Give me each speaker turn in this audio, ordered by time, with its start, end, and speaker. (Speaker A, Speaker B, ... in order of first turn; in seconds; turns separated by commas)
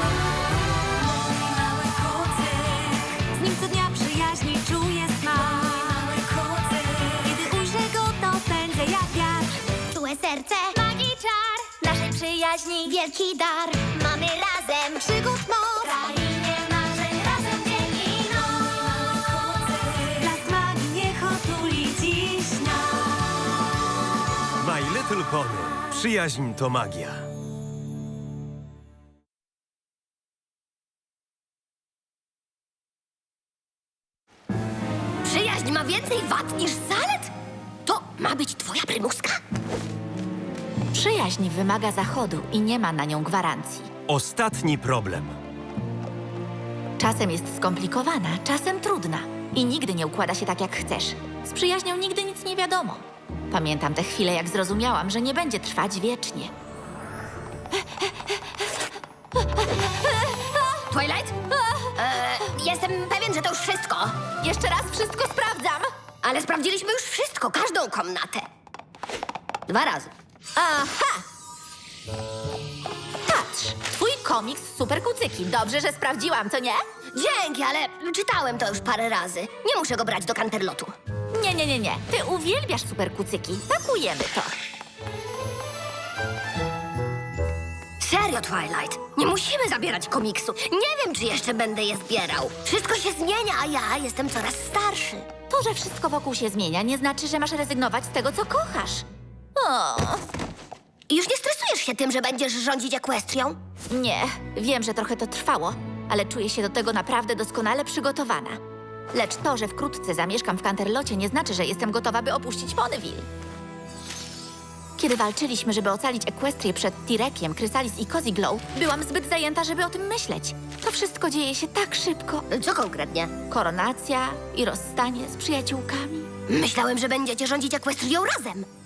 Speaker A: 3.6-6.0, Speaker A: 7.7-9.4, Speaker B: 9.9-10.8, Speaker C: 11.8-12.9, Speaker B: 12.9-16.5, Speaker B: 17.1-17.9, Speaker A: 20.3-21.1, Speaker A: 21.8-22.2, Speaker D: 24.6-27.2, Speaker E: 35.2-37.3, Speaker E: 37.9-39.4, Speaker C: 40.9-43.9, Speaker D: 44.1-45.4, Speaker C: 47.0-56.5, Speaker E: 60.9-61.4, Speaker E: 62.0-64.2, Speaker C: 64.4-65.9, Speaker E: 66.2-68.5, Speaker E: 69.7-70.1, Speaker C: 70.6-71.2, Speaker C: 73.3-76.8, Speaker E: 77.1-80.9, Speaker C: 81.3-84.5, Speaker E: 88.0-95.3, Speaker C: 95.5-99.0, Speaker C: 99.6-100.2, Speaker E: 101.1-103.6, Speaker C: 103.9-108.6, Speaker C: 109.1-113.3, Speaker C: 115.0-122.5, Speaker E: 122.5-123.3, Speaker C: 123.5-126.3, Speaker E: 126.5-128.7